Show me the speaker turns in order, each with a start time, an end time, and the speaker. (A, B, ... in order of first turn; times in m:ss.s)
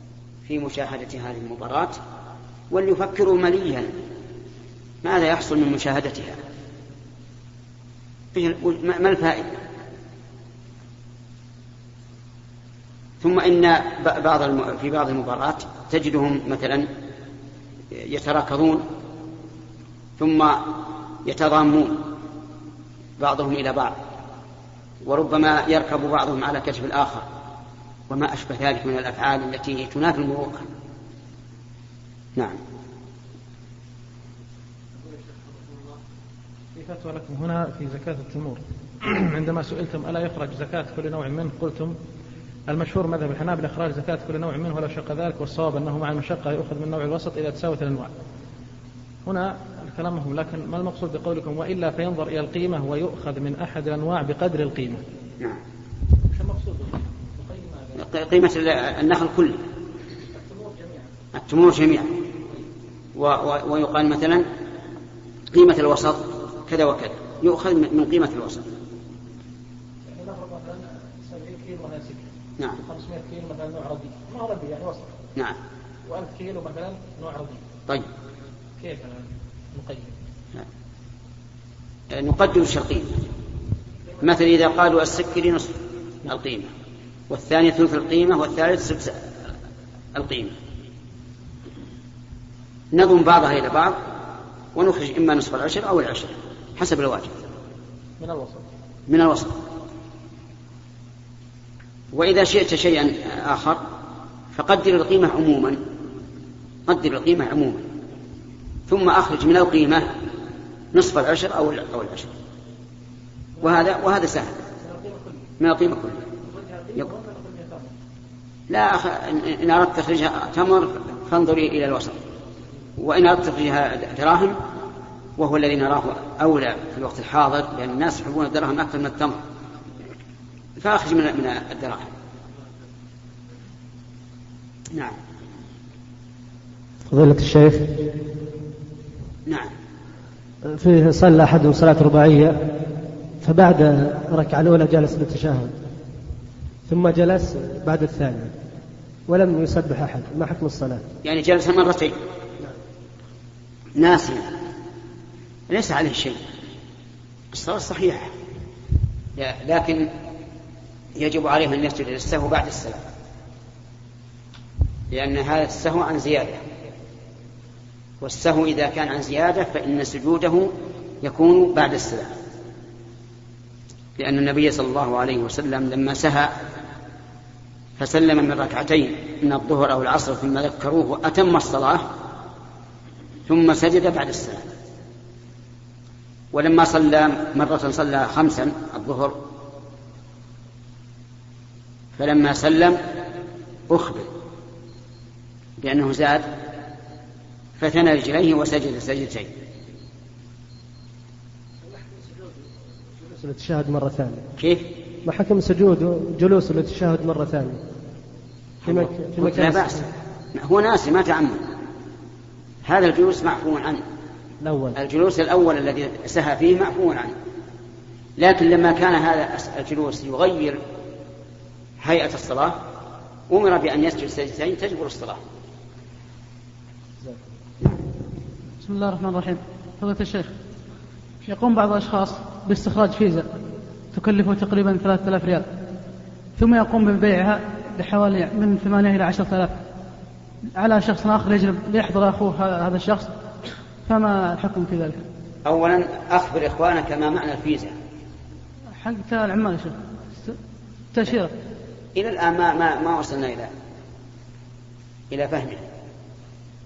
0:00.4-0:02.0 A
0:02.7-0:03.9 A
0:05.0-0:06.4 A
0:08.3-0:09.5 A
0:13.2-0:16.9 A
0:17.9-0:18.8 A
0:20.2-0:22.0 A
0:23.2-0:24.0 A
0:25.0-0:27.3 A
0:28.1-0:30.6 A
0:35.0-0:35.9 B
0:36.7-0:41.9 B
0:42.7-0:48.1 B
0:49.2-0:55.0 B
0:56.3-0:58.0 B
0:58.0-0:59.6 A
1:00.3-1:01.1 B
1:01.3-1:02.1 A
1:03.2-1:04.4 A
1:05.5-1:08.6 A
1:10.1-1:15.2 B
1:16.1-1:17.6 B
1:18.8-1:20.1 B
1:22.1-1:23.2 A
1:24.2-1:26.7 A
1:27.3-1:29.2 A
1:30.1-1:30.5 A
1:32.9-1:34.0 A
1:34.7-1:37.4 A
1:38.2-1:38.6 B
1:39.1-1:39.6 A
1:42.1-1:43.8 A
1:44.5-1:45.8 A
1:46.9-1:47.8 A
1:48.9-1:50.1 A
1:50.9-1:52.3 A
1:53.6-1:54.6 A
1:54.8-1:55.4 B
1:55.6-1:56.2 A
1:56.4-1:57.9 B
1:58.7-2:02.2 A
2:03.0-2:04.6 A
2:05.4-2:09.4 A
2:10.8-2:12.1 A
2:17.1-2:18.0 C
2:19.4-2:19.7 A
2:20.7-2:22.7 C
2:23.4-2:25.7 C
2:26.9-2:28.5 C
2:29.3-2:31.0 C
2:31.2-2:32.1 A
2:34.0-2:34.5 A
2:35.7-2:36.4 A
2:37.5-2:38.3 A
2:39.4-2:40.1 A
2:41.2-2:43.0 A
2:45.1-2:46.6 A
2:48.2-2:52.3 A
2:54.2-2:56.5 A
2:58.0-3:02.0 A
3:03.5-3:04.6 A
3:06.5-3:09.4 A
3:12.2-3:13.0 A
3:13.9-3:14.3 A
3:15.8-3:16.5 A
3:17.8-3:19.5 A
3:23.2-3:24.4 C
3:24.6-3:24.9 A
3:25.2-3:27.8 C
3:28.8-3:30.0 A
3:28.8-3:30.1 C
3:30.5-3:31.6 A
3:32.8-3:34.0 A
3:34.6-3:34.9 C
3:34.9-3:37.3 A
3:38.4-3:40.8 A
3:42.0-3:42.8 A
3:43.5-3:45.4 A
3:47.2-3:47.5 C
3:48.8-3:50.5 D
3:51.4-3:53.5 D
3:54.1-3:55.7 D
3:56.6-3:59.8 D
4:00.7-4:03.3 D
4:04.0-4:05.2 D
4:05.6-4:07.9 A
4:09.0-4:10.6 D
4:11.1-4:11.5 D
4:12.2-4:13.7 A
4:15.3-4:15.8 A